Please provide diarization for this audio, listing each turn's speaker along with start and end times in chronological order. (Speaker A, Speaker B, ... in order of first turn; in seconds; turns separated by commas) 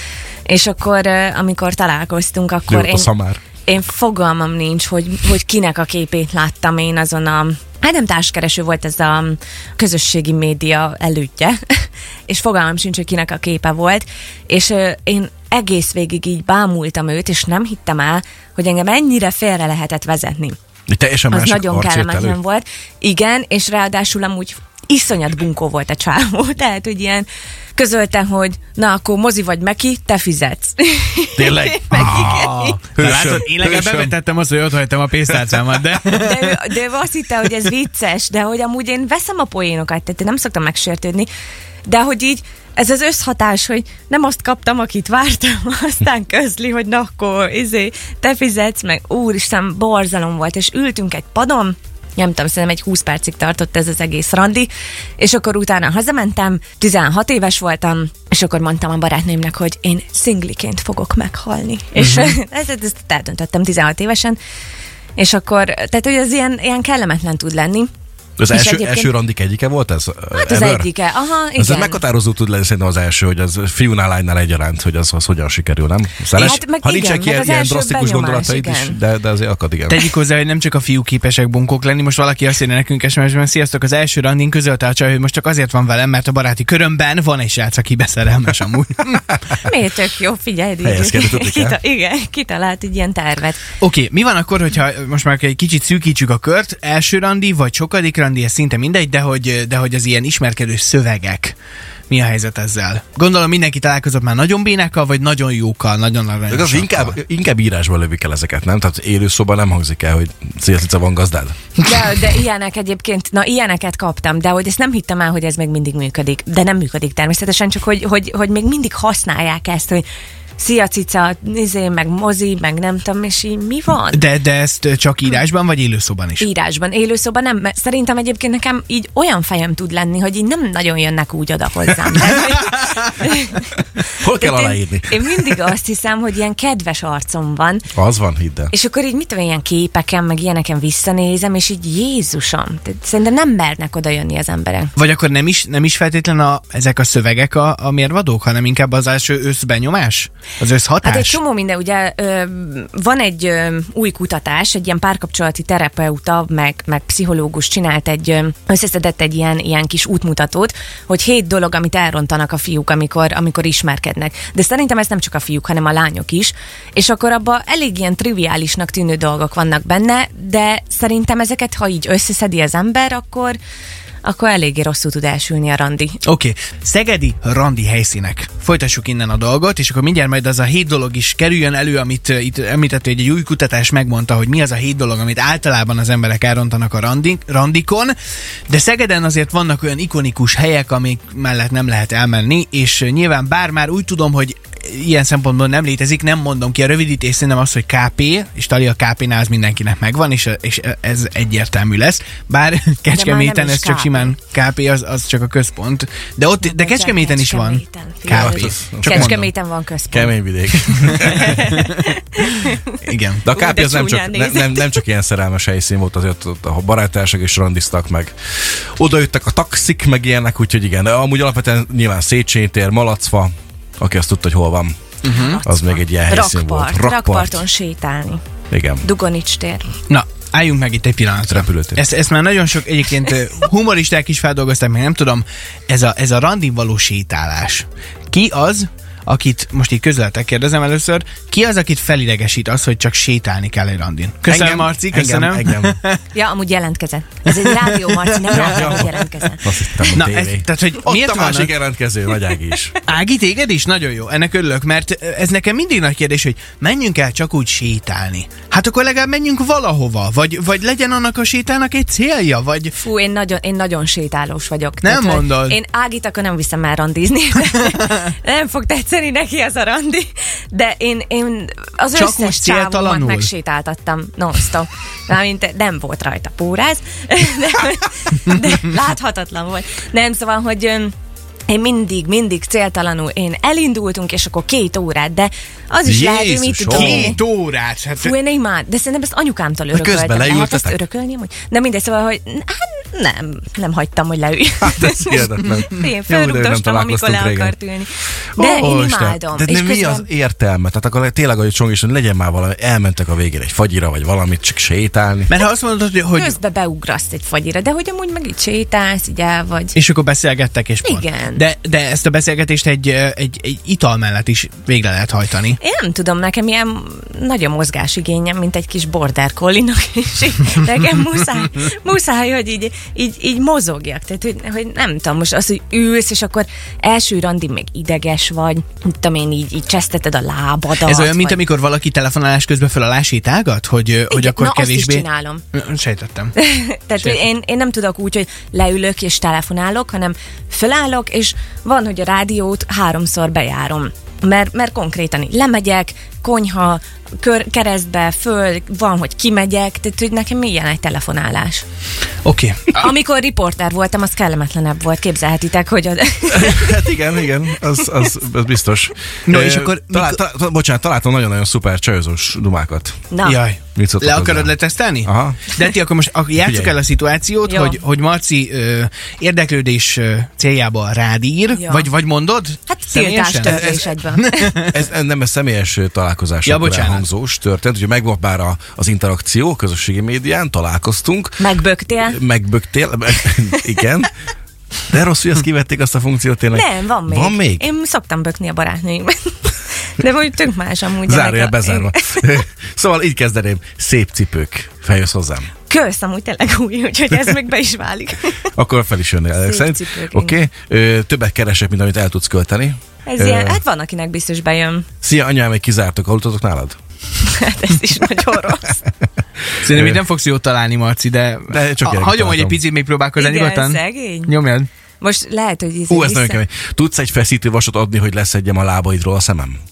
Speaker A: 0.5-3.1, Speaker B: 2.7-3.4, Speaker A: 3.6-20.6, Speaker B: 20.9-22.4, Speaker A: 21.3-32.9, Speaker B: 31.4-34.1, Speaker C: 31.9-36.7, Speaker A: 36.1-41.3, Speaker A: 41.9-64.4, Speaker C: 62.0-62.3, Speaker A: 65.2-67.9, Speaker B: 68.4-70.9, Speaker A: 68.5-69.1, Speaker A: 70.4-72.0, Speaker B: 71.6-80.1, Speaker A: 76.3-79.0, Speaker C: 79.9-89.2, Speaker A: 89.6-93.6, Speaker B: 90.8-91.8, Speaker C: 93.8-101.5, Speaker C: 102.1-107.1, Speaker B: 106.5-111.6, Speaker A: 111.8-120.0, Speaker A: 120.6-124.2, Speaker C: 124.1-126.5, Speaker A: 126.4-133.7, Speaker B: 134.2-135.5, Speaker A: 134.4-137.9, Speaker B: 137.9-138.7, Speaker A: 138.7-144.9, Speaker C: 144.9-151.4, Speaker A: 151.0-173.6, Speaker A: 174.2-176.2, Speaker C: 176.2-188.1, Speaker C: 188.7-209.5, Speaker A: 203.1-204.3, Speaker A: 206.6-215.0, Speaker B: 208.3-209.3, Speaker B: 210.1-211.7, Speaker C: 213.0-213.4, Speaker B: 213.4-224.9, Speaker C: 225.2-225.6, Speaker A: 225.3-228.4, Speaker B: 225.6-227.6, Speaker B: 228.7-229.0, Speaker A: 229.0-229.9, Speaker C: 230.1-246.2, Speaker B: 231.5-232.0, Speaker B: 244.4-246.0, Speaker A: 246.3-250.2, Speaker B: 248.5-252.9, Speaker C: 250.1-251.7, Speaker C: 253.1-262.9, Speaker A: 263.0-281.1, Speaker C: 265.0-265.8, Speaker C: 272.1-273.5, Speaker A: 281.7-287.4, Speaker B: 286.0-287.4, Speaker C: 286.9-288.3, Speaker A: 288.2-300.3, Speaker B: 289.9-291.0, Speaker B: 294.8-297.8, Speaker B: 298.5-305.5, Speaker C: 305.5-306.5, Speaker A: 306.3-310.0, Speaker C: 309.9-315.8, Speaker A: 311.0-311.6, Speaker A: 315.8-331.6, Speaker C: 331.0-336.6, Speaker A: 334.3-335.6, Speaker A: 336.6-351.8, Speaker C: 352.4-353.0, Speaker A: 352.9-357.0, Speaker B: 356.5-363.2, Speaker C: 359.5-360.4, Speaker A: 363.3-363.6, Speaker C: 363.4-375.0, Speaker B: 363.9-365.7, Speaker B: 366.6-366.9, Speaker A: 367.6-368.0, Speaker A: 371.7-372.1, Speaker A: 372.9-374.8, Speaker B: 373.6-374.0, Speaker B: 374.8-384.3, Speaker C: 376.6-377.2, Speaker A: 381.6-382.4, Speaker B: 385.1-387.9, Speaker A: 386.7-392.6, Speaker B: 391.2-395.7, Speaker A: 395.9-398.6, Speaker B: 398.7-403.8, Speaker A: 399.6-400.6, Speaker A: 403.2-405.1, Speaker B: 405.2-407.0, Speaker A: 407.4-409.0, Speaker C: 409.8-414.9, Speaker B: 409.9-410.2, Speaker B: 411.7-412.8, Speaker A: 413.4-414.5, Speaker A: 415.2-416.6, Speaker B: 416.1-419.8